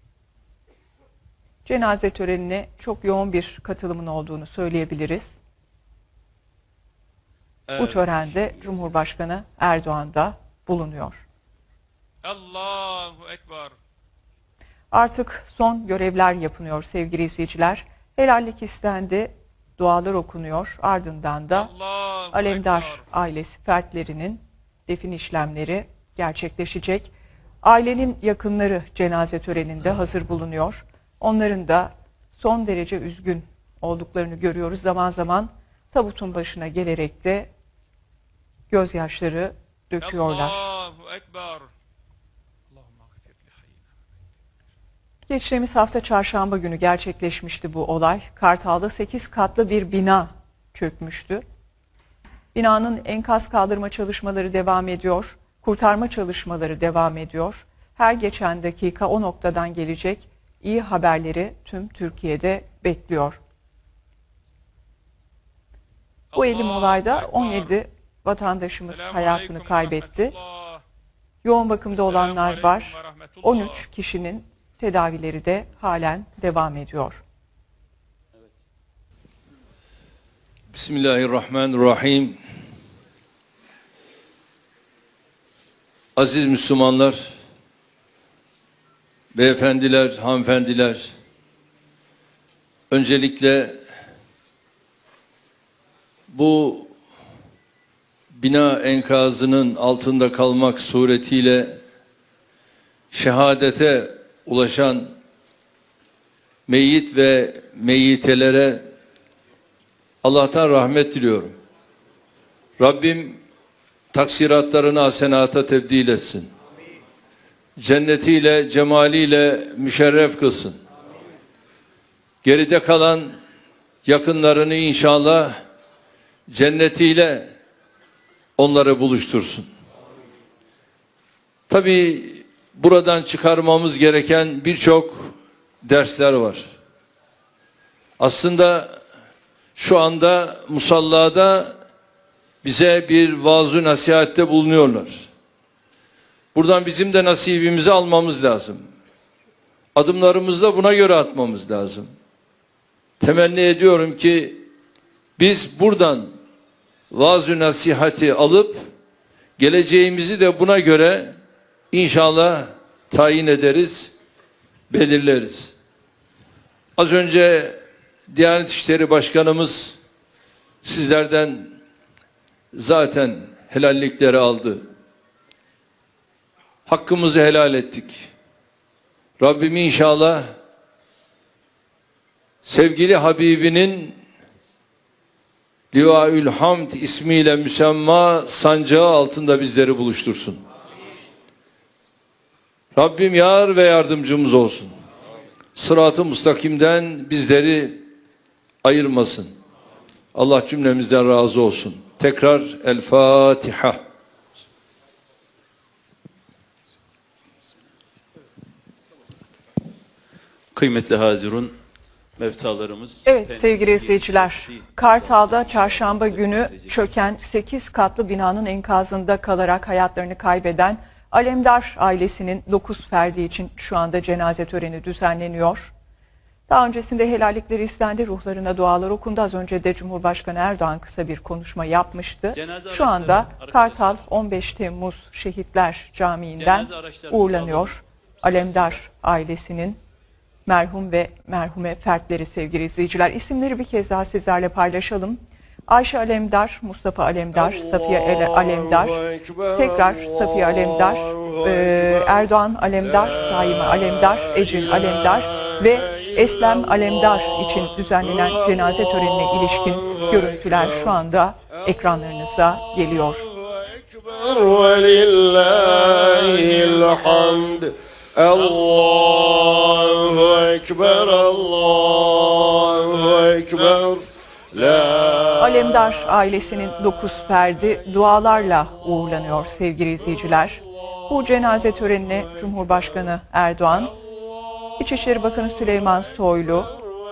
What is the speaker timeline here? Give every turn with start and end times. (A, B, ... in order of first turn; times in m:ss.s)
0:01.6-0:05.4 A
0:07.7-0:11.2 A
0:12.2-0:13.7 B
0:14.9-0:21.7 A
0:21.5-0:23.0 B
0:22.3-0:37.5 A
0:38.7-0:40.7 A
0:40.0-0:41.7 B
0:42.7-0:43.8 B
0:45.3-0:51.4 A
0:52.5-1:03.4 A
1:06.3-1:07.7 B
1:06.4-1:10.3 A
1:08.8-1:10.8 B
1:11.4-1:17.2 A
1:11.9-1:13.8 B
1:20.7-1:22.4 C
1:26.2-1:27.3 C
1:29.3-1:31.1 C
1:32.9-1:33.8 C
1:36.3-1:36.9 C
1:38.3-1:41.8 C
1:43.1-1:45.1 C
1:46.7-1:48.8 C
1:50.2-1:51.5 C
1:52.8-1:53.4 C
1:54.1-1:56.5 C
1:57.8-2:00.8 C
2:02.4-2:03.3 C
2:04.0-2:05.5 C
2:06.5-2:07.5 C
2:08.6-2:09.7 C
2:11.7-2:16.7 C
2:18.2-2:19.0 C
2:19.8-2:21.7 C
2:22.6-2:25.3 C
2:26.5-2:28.8 C
2:29.9-2:32.1 C
2:33.2-2:34.6 C
2:35.4-2:36.3 C
2:37.1-2:38.8 C
2:39.6-2:41.3 C
2:41.9-2:44.1 C
2:44.9-2:45.8 C
2:47.0-2:47.8 C
2:48.3-2:50.0 C
2:50.8-2:51.7 C
2:52.7-2:54.8 C
2:56.9-2:58.3 C
2:59.4-3:00.4 C
3:02.6-3:04.2 C
3:05.9-3:10.6 C
3:12.9-3:14.9 C
3:15.8-3:18.0 C
3:18.8-3:19.5 C
3:20.3-3:24.0 C
3:30.7-3:31.7 D
3:32.4-3:37.0 D
3:33.2-3:45.9 A
3:46.7-4:00.0 A
3:52.5-3:54.2 D
3:56.6-3:58.0 D
3:58.5-3:59.0 D
4:00.6-4:23.5 A
4:23.8-4:34.2 E
4:35.4-4:44.2 A
4:45.0-4:47.0 A